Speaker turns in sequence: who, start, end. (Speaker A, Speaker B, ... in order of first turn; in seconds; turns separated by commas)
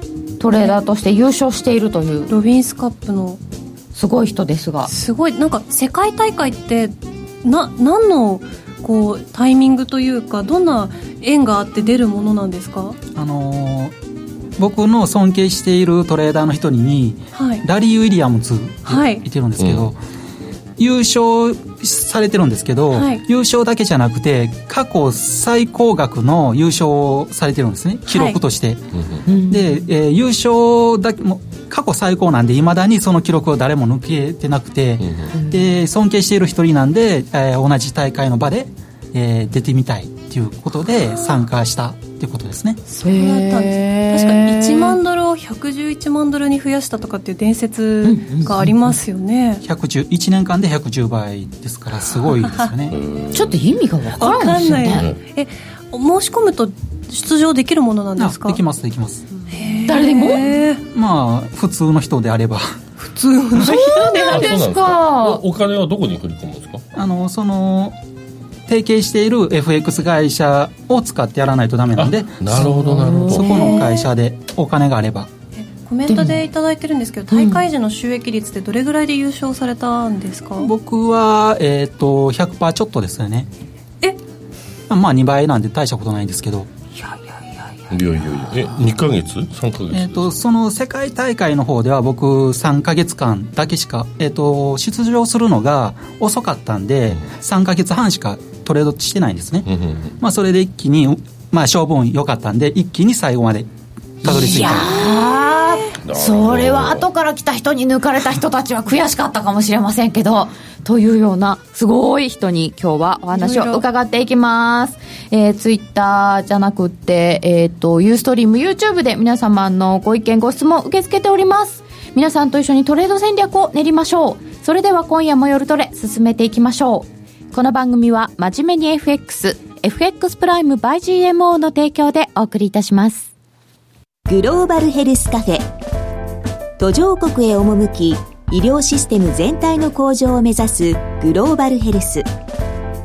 Speaker A: 0.4-2.3, Speaker B: 2.3-3.4, Speaker A: 3.9-4.9, Speaker B: 4.9-13.0, Speaker C: 13.2-13.9, Speaker C: 14.6-20.0, Speaker B: 17.4-17.6, Speaker B: 18.9-19.2, Speaker D: 19.6-19.9, Speaker C: 20.8-28.8, Speaker B: 22.9-23.2, Speaker B: 28.1-28.4, Speaker D: 28.9-29.2, Speaker A: 29.3-29.8, Speaker C: 29.5-42.8, Speaker D: 35.0-35.3, Speaker A: 35.3-35.8, Speaker B: 42.9-49.6, Speaker A: 43.0-45.0, Speaker A: 48.0-48.9, Speaker C: 49.6-53.0, Speaker D: 52.9-53.6, Speaker A: 53.3-55.1, Speaker B: 54.2-58.6, Speaker D: 54.8-55.2, Speaker C: 58.2-59.2, Speaker B: 59.5-60.8, Speaker A: 59.9-60.5, Speaker C: 60.9-62.8, Speaker A: 63.2-65.4, Speaker B: 63.5-64.5, Speaker D: 64.3-66.8, Speaker C: 67.0-68.0, Speaker C: 68.7-75.3, Speaker D: 72.0-73.7, Speaker A: 72.6-73.5, Speaker B: 73.5-74.1, Speaker B: 75.6-80.7, Speaker A: 76.1-76.4, Speaker A: 77.3-77.6, Speaker C: 80.6-83.5, Speaker C: 84.9-86.7, Speaker A: 87.0-88.5, Speaker D: 87.9-90.3, Speaker C: 89.9-99.7, Speaker D: 99.7-100.1, Speaker C: 100.2-103.7, Speaker C: 104.2-104.9, Speaker A: 104.2-133.3, Speaker D: 106.0-107.1, Speaker B: 113.3-113.8, Speaker E: 134.3-135.7, Speaker E: 136.8-142.3